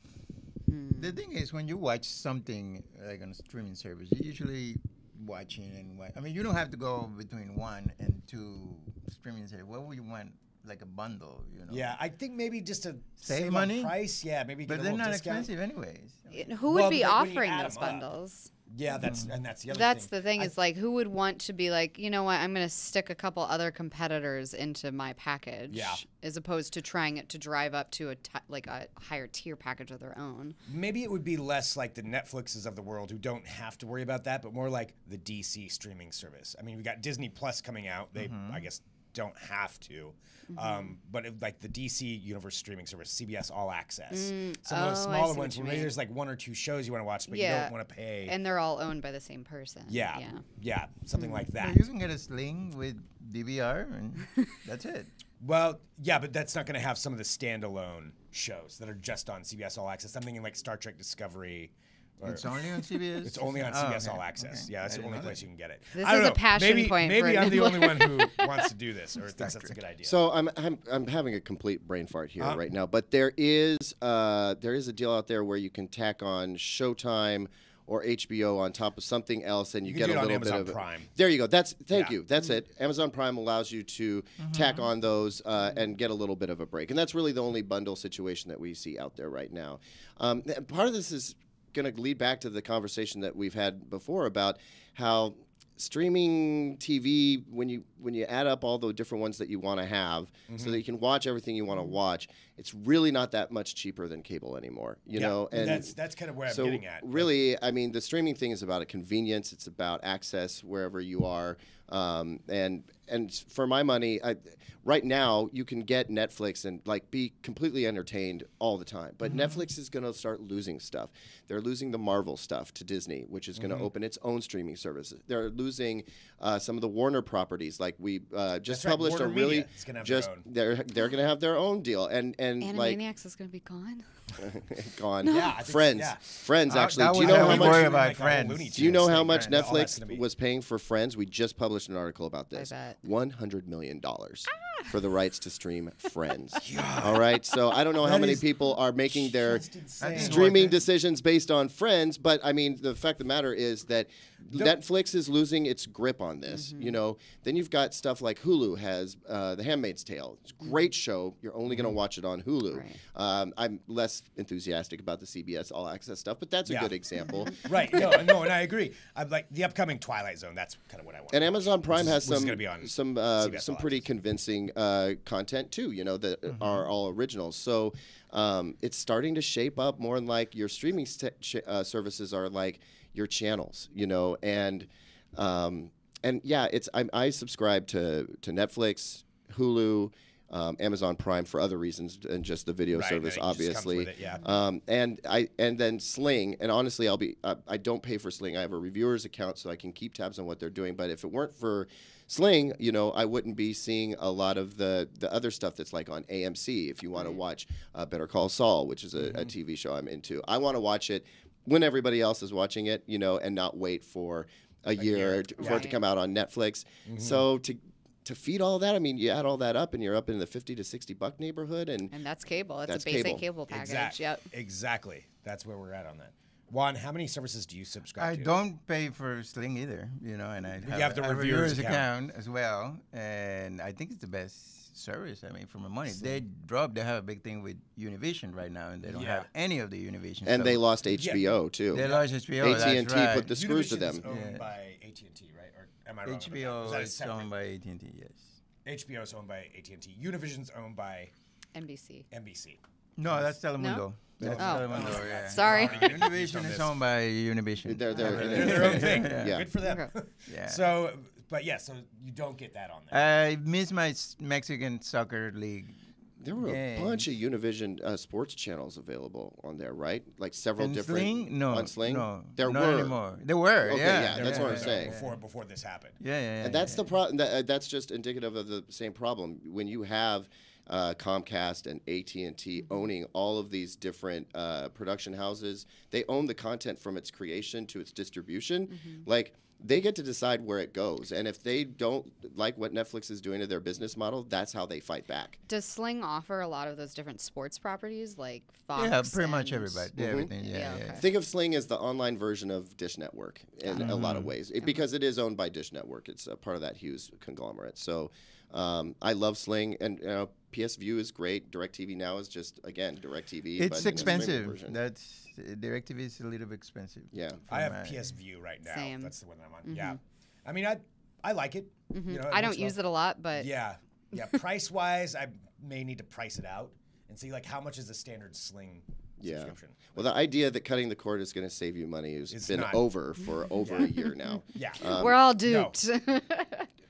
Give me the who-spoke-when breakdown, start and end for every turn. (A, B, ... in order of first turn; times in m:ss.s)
0:00.7-0:01.2 A
0:01.0-0:12.0 B
0:11.7-0:15.5 C
0:13.2-0:14.0 B
0:14.6-0:16.6 B
0:16.3-0:18.5 A
0:16.6-0:18.1 C
0:18.7-0:20.5 C
0:18.9-0:19.3 B
0:19.7-0:30.6 A
0:25.7-0:26.0 C
0:30.6-0:48.3 C
0:38.1-0:38.6 B
0:40.5-0:40.9 A
0:44.1-0:45.9 A
0:47.3-0:47.7 A
0:48.2-0:50.4 A
0:49.9-0:51.8 C
0:51.2-0:51.5 A
0:51.6-0:55.1 B
0:55.4-1:10.2 C
1:02.2-1:05.4 B
1:05.9-1:08.7 A
1:09.4-1:09.8 B
1:10.0-1:45.9 D
1:19.8-1:21.1 C
1:24.4-1:24.8 B
1:40.5-1:40.8 C
1:45.2-1:47.3 C
1:46.5-2:13.0 D
2:03.6-2:03.9 C
2:08.7-2:10.4 C
2:12.6-2:14.1 A
2:14.4-2:18.0 D
2:15.2-2:16.5 C
2:15.3-2:15.5 A
2:16.7-2:19.7 B
2:17.1-2:20.2 C
2:18.7-2:48.2 D
2:22.5-2:23.0 A
2:24.6-2:24.9 A
2:26.6-2:27.3 C
2:27.9-2:30.7 C
2:30.0-2:30.8 B
2:36.5-2:37.0 A
2:42.7-2:43.0 A
2:46.7-2:46.9 C
2:47.5-2:54.0 C
2:51.3-3:42.1 D
3:12.9-3:14.4 C
3:14.2-3:14.5 A
3:35.0-3:35.9 C
3:35.6-3:36.0 A
3:37.1-3:37.4 C
3:42.1-3:44.5 A
3:42.8-3:43.4 D
3:43.7-3:48.6 C
3:48.2-4:00.8 B
3:50.8-3:52.1 C
3:59.0-3:59.5 C
4:00.4-4:04.2 D
4:01.1-4:02.2 C
4:01.9-4:03.5 B
4:03.4-4:07.5 C
4:04.2-4:04.7 B
4:06.2-4:08.6 B
4:08.8-4:11.3 C
4:11.7-4:12.2 A
4:12.3-4:13.5 C
4:13.2-4:19.6 B
4:13.8-4:14.0 A
4:14.4-4:14.8 D
4:14.4-4:16.9 C
4:14.6-4:16.3 A
4:17.8-4:19.7 D
4:18.1-4:23.2 C
4:19.8-4:20.1 A
4:20.5-4:20.8 B
4:23.1-4:26.0 B
4:26.4-4:33.2 D
4:26.6-4:27.3 B
4:30.8-4:35.4 B
4:33.8-4:35.1 D
4:34.2-4:36.2 C
4:36.2-4:37.1 B
4:36.6-4:55.6 D
4:48.9-4:49.2 A
4:55.7-5:00.1 A
4:58.9-5:01.2 B
5:00.2-5:00.5 D
5:00.6-5:01.2 A
5:01.1-5:15.0 D
5:03.8-5:04.1 A
5:03.9-5:04.5 B
5:13.8-5:18.3 B
5:17.3-5:17.6 D
5:17.7-5:23.0 C
5:18.8-5:19.3 A
5:19.8-5:20.2 A
5:22.1-5:23.7 A
5:23.5-5:30.2 C
5:29.4-5:35.4 D
5:32.5-5:33.0 C
5:33.8-5:34.1 C
5:34.0-5:36.9 A
5:34.7-5:35.9 C